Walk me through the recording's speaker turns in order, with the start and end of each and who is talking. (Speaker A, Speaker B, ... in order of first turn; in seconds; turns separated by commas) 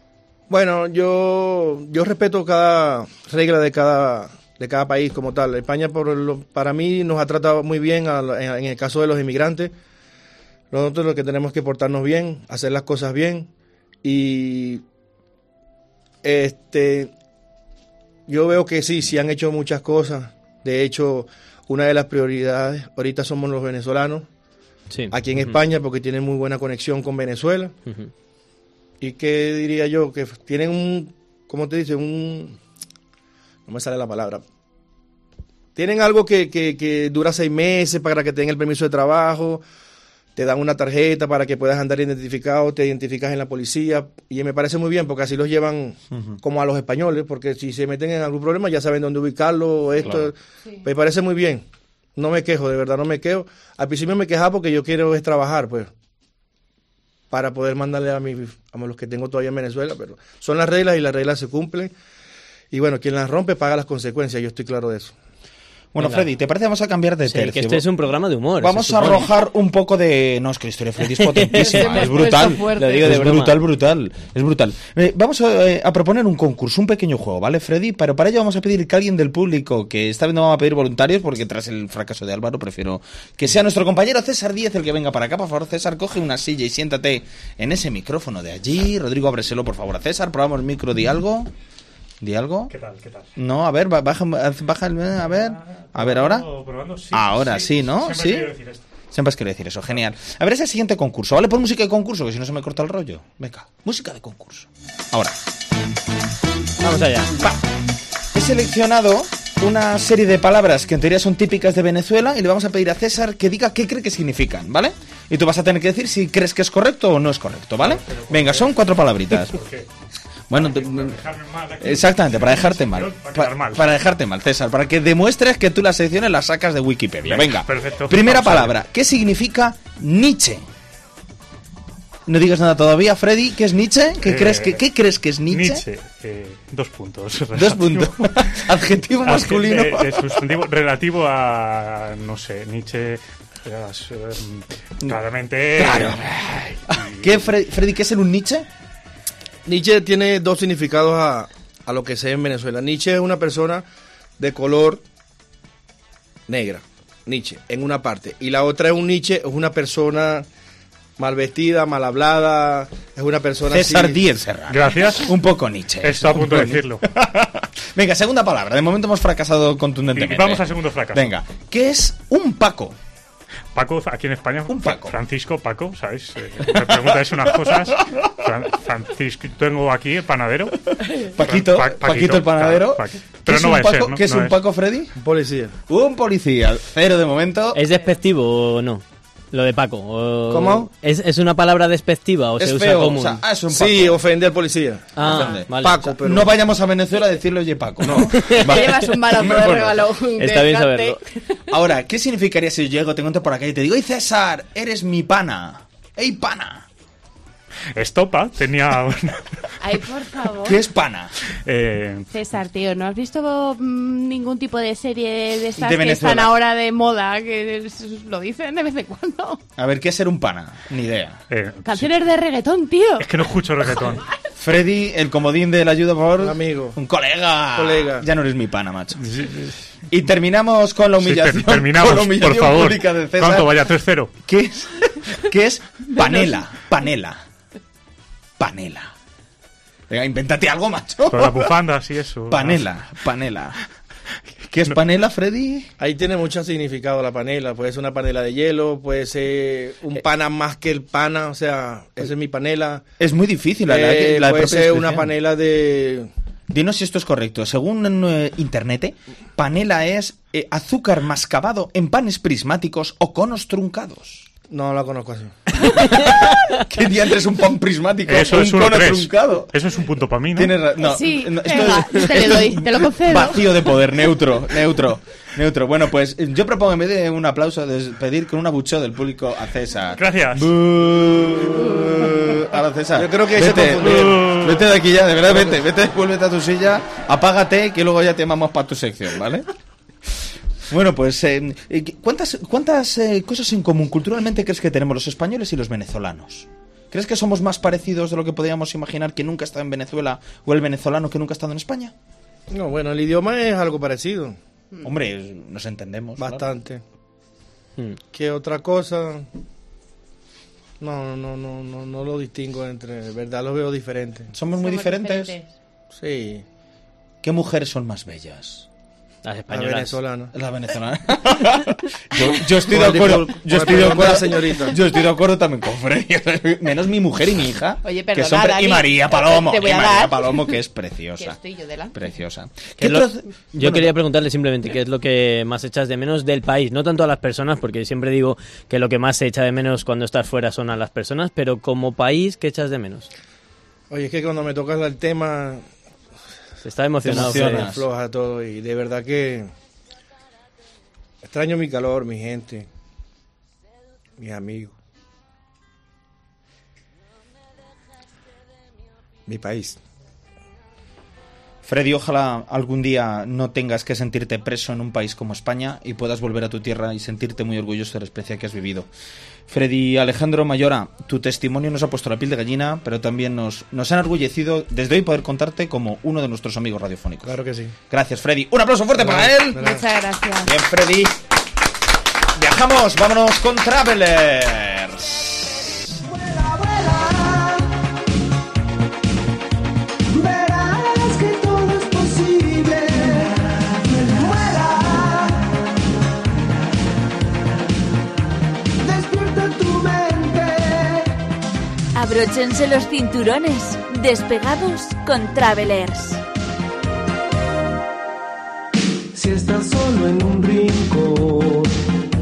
Speaker A: 0.5-9.7, Speaker A: 10.7-13.5, Speaker A: 14.0-14.8, Speaker A: 16.2-17.1, Speaker A: 18.3-24.3, Speaker B: 24.9-25.6, Speaker A: 25.1-27.7, Speaker A: 29.0-32.6, Speaker A: 33.6-34.4, Speaker A: 35.7-39.6, Speaker A: 40.4-51.6, Speaker C: 46.1-46.4, Speaker C: 50.0-50.3, Speaker A: 52.1-55.9, Speaker A: 57.3-61.9, Speaker A: 62.7-65.1, Speaker C: 65.9-67.8, Speaker B: 66.0-66.3, Speaker B: 67.3-69.3, Speaker C: 68.6-91.5, Speaker B: 71.0-73.6, Speaker D: 71.5-73.2, Speaker C: 92.2-92.7, Speaker E: 92.7-93.3, Speaker C: 93.3-96.5, Speaker E: 95.2-98.8, Speaker C: 97.1-98.5, Speaker C: 99.1-105.3, Speaker B: 106.8-107.3, Speaker C: 108.3-119.6, Speaker E: 117.8-118.8, Speaker E: 119.3-119.9, Speaker C: 120.5-121.2, Speaker E: 120.5-123.9, Speaker C: 121.8-130.6, Speaker E: 127.2-128.8, Speaker C: 132.2-135.8, Speaker E: 134.2-134.8, Speaker E: 135.5-138.6, Speaker C: 137.5-140.4, Speaker E: 139.2-147.4, Speaker C: 145.8-148.7, Speaker A: 149.6-153.8, Speaker A: 154.4-155.0, Speaker A: 156.5-160.5, Speaker A: 161.2-164.2, Speaker C: 163.7-172.9, Speaker E: 164.7-165.3, Speaker E: 166.0-167.0, Speaker E: 170.1-171.3, Speaker E: 173.7-180.7, Speaker C: 174.7-175.2, Speaker C: 176.8-177.8, Speaker C: 181.3-185.1, Speaker E: 181.4-184.6, Speaker A: 185.1-185.8, Speaker C: 185.9-187.8, Speaker B: 187.7-193.4, Speaker A: 190.5-190.9, Speaker C: 192.6-194.2, Speaker A: 193.7-196.6, Speaker B: 195.2-196.1, Speaker C: 195.2-200.0, Speaker B: 198.1-199.0, Speaker D: 198.6-201.6, Speaker B: 200.4-201.2, Speaker C: 201.7-206.9, Speaker E: 207.9-209.4, Speaker D: 209.8-210.8, Speaker C: 210.6-211.3, Speaker E: 211.7-212.2, Speaker D: 212.3-219.6, Speaker C: 215.8-216.5, Speaker C: 219.8-221.4, Speaker E: 221.5-222.0, Speaker D: 221.8-223.3, Speaker E: 223.2-224.2, Speaker C: 224.6-229.3, Speaker A: 226.4-227.0, Speaker A: 227.7-228.3, Speaker E: 229.2-229.7, Speaker C: 230.1-233.8, Speaker E: 231.2-234.3, Speaker C: 234.4-237.4, Speaker C: 238.6-239.1, Speaker C: 240.1-241.7, Speaker E: 241.3-242.8, Speaker C: 242.5-243.8, Speaker C: 244.7-245.9, Speaker A: 246.0-253.0, Speaker C: 253.2-255.3, Speaker A: 253.8-256.3, Speaker C: 256.7-264.5, Speaker A: 264.7-265.5, Speaker C: 265.9-269.7, Speaker E: 268.2-270.8, Speaker C: 270.5-289.7, Speaker D: 271.0-273.9, Speaker E: 280.2-280.7, Speaker A: 283.1-284.4, Speaker E: 284.3-284.8, Speaker C: 290.9-302.1, Speaker A: 302.7-304.6, Speaker C: 305.0-306.6, Speaker A: 306.4-307.0, Speaker A: 308.3-309.5, Speaker A: 311.0-314.5, Speaker C: 314.5-315.5, Speaker D: 314.7-315.7, Speaker A: 316.1-316.6, Speaker C: 317.4-318.9, Speaker B: 319.4-320.2, Speaker A: 319.7-320.5, Speaker C: 320.5-331.6, Speaker A: 322.4-325.0, Speaker D: 328.0-330.7, Speaker D: 331.4-332.1, Speaker C: 332.1-334.1, Speaker B: 333.0-343.3, Speaker A: 344.1-345.8, Speaker B: 346.8-347.9, Speaker C: 347.2-348.0, Speaker A: 347.8-349.7, Speaker A: 351.4-352.9, Speaker A: 354.4-354.9, Speaker A: 359.5-360.0, Speaker C: 361.8-369.1, Speaker C: 369.7-377.6, Speaker A: 377.4-377.9, Speaker C: 378.1-379.8, Speaker A: 379.1-380.0, Speaker D: 379.8-380.7, Speaker C: 380.6-381.4, Speaker C: 382.5-385.8, Speaker F: 386.2-387.9, Speaker F: 390.3-395.8, Speaker F: 399.0-401.3, Speaker G: 402.1-406.4, Speaker F: 409.3-411.9